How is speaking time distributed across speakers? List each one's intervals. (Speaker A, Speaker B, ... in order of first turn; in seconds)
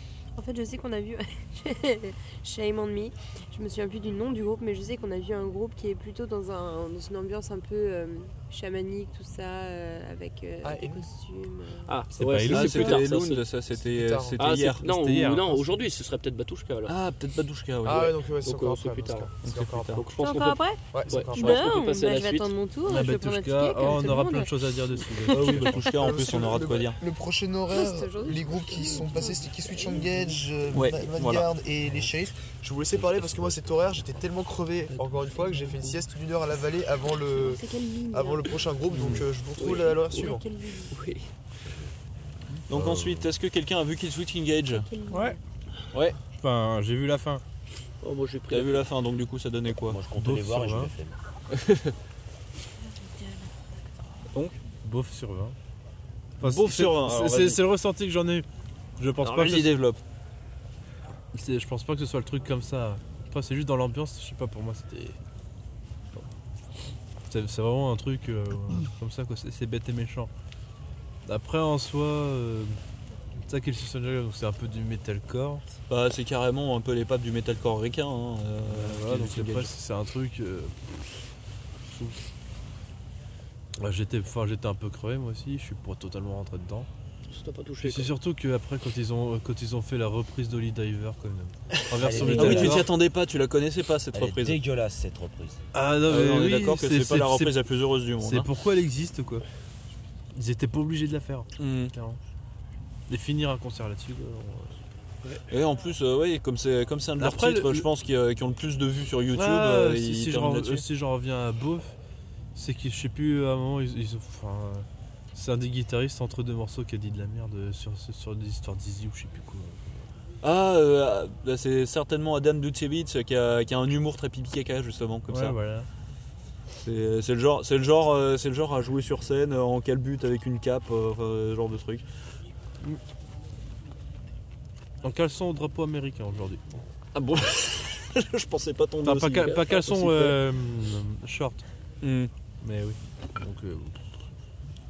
Speaker A: 0.3-12.0, 20.2-26.1, 27.7-30.5, 37.3-38.6, 39.9-40.9, 44.7-45.4, 52.8-53.8
Speaker B: 10.6-11.0, 13.7-14.4, 17.8-20.1, 20.9-21.7, 25.9-40.4
Speaker C: 11.8-13.5, 14.4-16.9, 18.4-19.3, 20.0-22.5, 39.5-41.3, 48.0-48.9, 87.3-88.1, 139.4-140.1
Speaker D: 12.2-13.0, 14.8-15.7, 22.9-25.8, 45.1-45.4, 46.3-47.4, 50.2-50.9, 54.8-55.5, 56.4-58.5, 59.0-59.7, 61.3-65.2, 67.3-70.3, 71.2-72.8, 73.4-75.6, 78.6-81.2, 81.8-82.2, 83.8-86.9, 87.8-92.9, 95.7-97.6, 98.2-99.4, 100.3-102.2, 103.1-104.8, 107.2-107.9, 109.3-111.9, 112.5-120.0, 125.3-125.9, 135.0-136.8, 139.0-141.6, 142.6-144.1
Speaker E: 12.4-14.8, 16.9-18.1, 19.4-20.0, 25.3-27.0, 30.7-31.5, 38.9-39.2, 42.7-44.9, 45.9-46.2, 48.5-50.0, 51.5-51.9, 56.4-57.6, 59.2-60.0, 75.9-79.7, 92.0-94.6, 96.1-98.5, 101.6-101.9, 105.5-110.8, 120.4-125.6, 126.8-132.0, 137.1-140.3, 142.0-142.3
Speaker F: 31.8-32.1, 32.9-34.2, 41.6-41.9, 42.7-43.3, 49.8-51.2, 91.9-92.9, 94.1-95.6